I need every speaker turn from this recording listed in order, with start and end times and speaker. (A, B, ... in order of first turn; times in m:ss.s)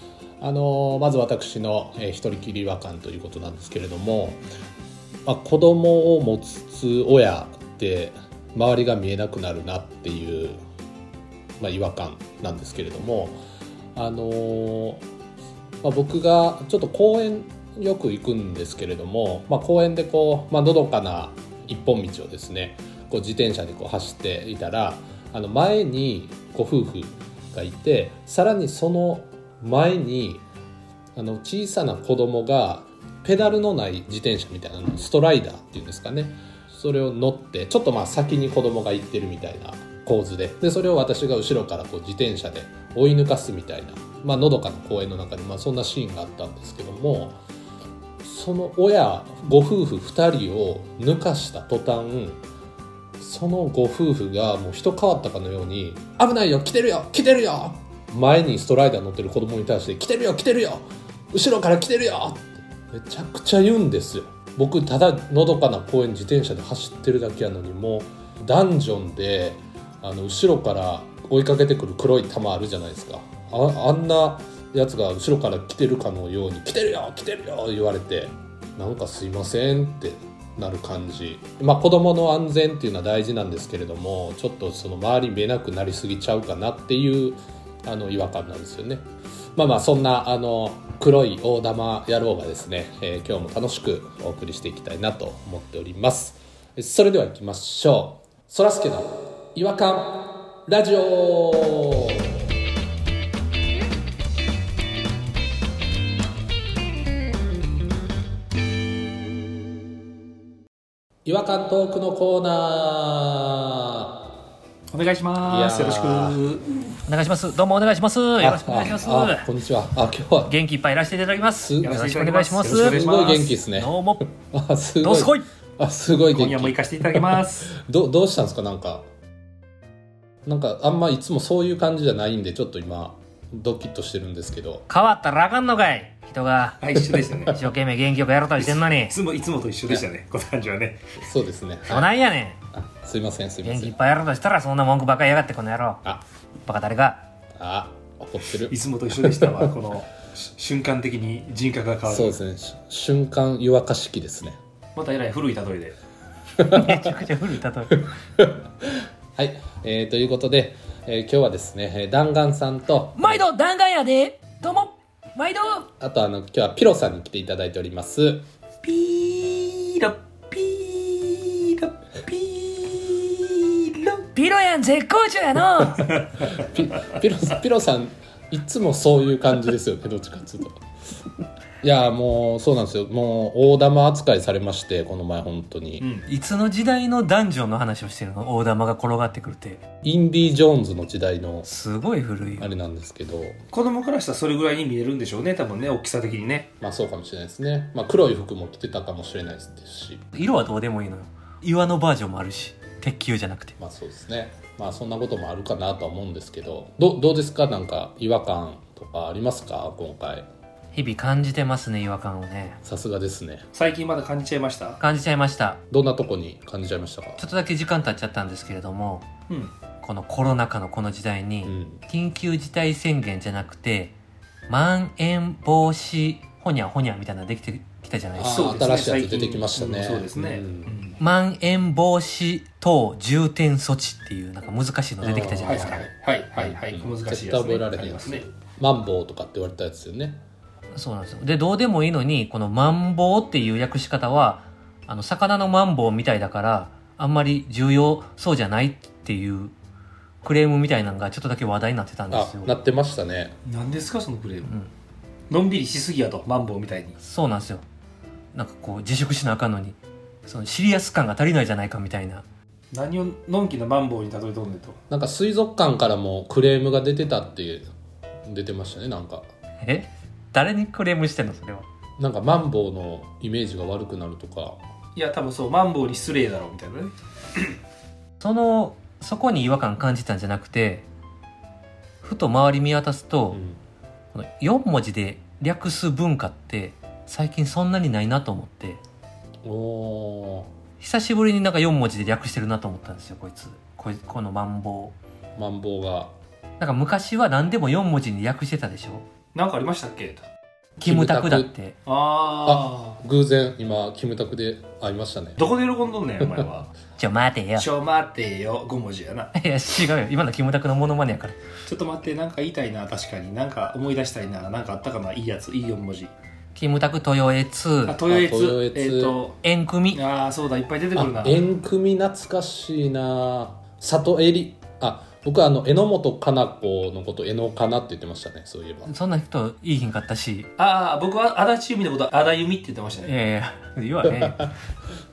0:00.4-0:04.4 A
0:05.2-0:10.6 A
0:11.6-0:13.4 A
0:13.9-0:15.0 A
0:15.8-0:30.4 A
0:31.2-0:47.4 A
0:48.2-0:52.4 A
0:53.2-1:42.3 A
1:51.2-1:54.2 A
1:54.9-1:56.6 B
1:55.4-1:56.4 A
1:57.1-1:59.5 C
1:58.4-2:00.5 A
2:00.4-2:03.0 C
2:01.6-2:02.0 A
2:01.8-2:03.6 B
2:02.6-2:09.1 A
2:03.7-2:04.2 C
2:05.0-2:05.4 C
2:06.3-2:07.7 B
2:10.4-2:14.9 A
2:14.9-2:16.8 C
2:16.8-2:17.6 B
2:17.4-2:19.1 C
2:18.6-2:21.0 B
2:21.2-2:22.1 A
2:21.9-2:22.6 C
2:22.8-2:23.9 A
2:23.6-2:26.0 C
2:26.6-2:27.2 C
2:27.6-2:28.7 A
2:28.7-2:32.4 B
2:29.3-2:29.7 A
2:32.1-2:34.6 A
2:35.0-2:36.0 B
2:36.6-2:37.2 A
2:36.7-2:38.0 C
2:38.4-2:43.4 A
2:43.1-2:45.9 C
2:46.0-2:48.4 A
2:48.8-2:54.2 B
2:54.2-2:56.2 C
2:56.1-2:56.6 B
2:56.5-3:00.8 A
3:01.8-3:06.0 A
3:06.0-3:06.3 B
3:06.2-3:09.8 C
3:10.0-3:11.7 A
3:11.6-3:12.7 C
3:12.6-3:13.6 A
3:13.7-3:16.7 B
3:16.8-3:20.2 A
3:20.3-3:23.8 C
3:23.8-3:30.4 A
3:30.9-3:32.8 C
3:32.8-3:33.6 A
3:33.7-3:35.0 B
3:35.0-3:35.8 C
3:35.9-3:37.4 A
3:37.4-3:39.3 C
3:39.5-3:39.7 B
3:40.0-3:44.1 C
3:41.6-3:42.0 A
3:44.7-3:48.7 C
3:48.3-3:51.0 A
3:48.4-3:51.2 B
3:51.2-3:56.0 C
3:55.2-4:00.4 A
3:55.6-3:58.4 B
4:00.9-4:09.7 C
4:10.4-4:12.7 C
4:12.3-4:13.6 A
4:13.6-4:14.7 B
4:15.5-4:17.2 B
4:17.2-4:17.8 C
4:18.5-4:22.4 C
4:22.9-4:25.0 B
4:25.1-4:27.9 A
4:28.4-4:29.4 A
4:29.8-4:31.8 C
4:32.2-4:34.8 A
4:35.2-4:37.7 B
4:38.4-4:41.0 C
4:42.2-4:43.6 C
4:43.5-4:43.8 A
4:44.3-4:49.0 C
4:49.6-4:50.7 A
4:51.0-4:55.1 C
4:55.6-4:56.3 A
4:56.8-4:59.2 C
4:59.5-5:00.4 B
5:01.0-5:02.0 C
5:01.0-5:01.7 A
5:02.0-5:03.2 B
5:02.6-5:05.6 A
5:05.6-5:06.9 B
5:07.2-5:07.9 C
5:07.8-5:09.5 B
5:09.5-5:11.6 C
5:11.8-5:16.3 B
5:16.7-5:18.2 C
5:18.0-5:19.6 B
5:18.3-5:19.4 A
5:19.6-5:20.2 C
5:20.1-5:21.6 B
5:21.1-5:29.1 A
5:29.0-5:30.7 C
5:30.8-5:33.3 B
5:33.2-5:34.7 C
5:34.2-5:34.7 A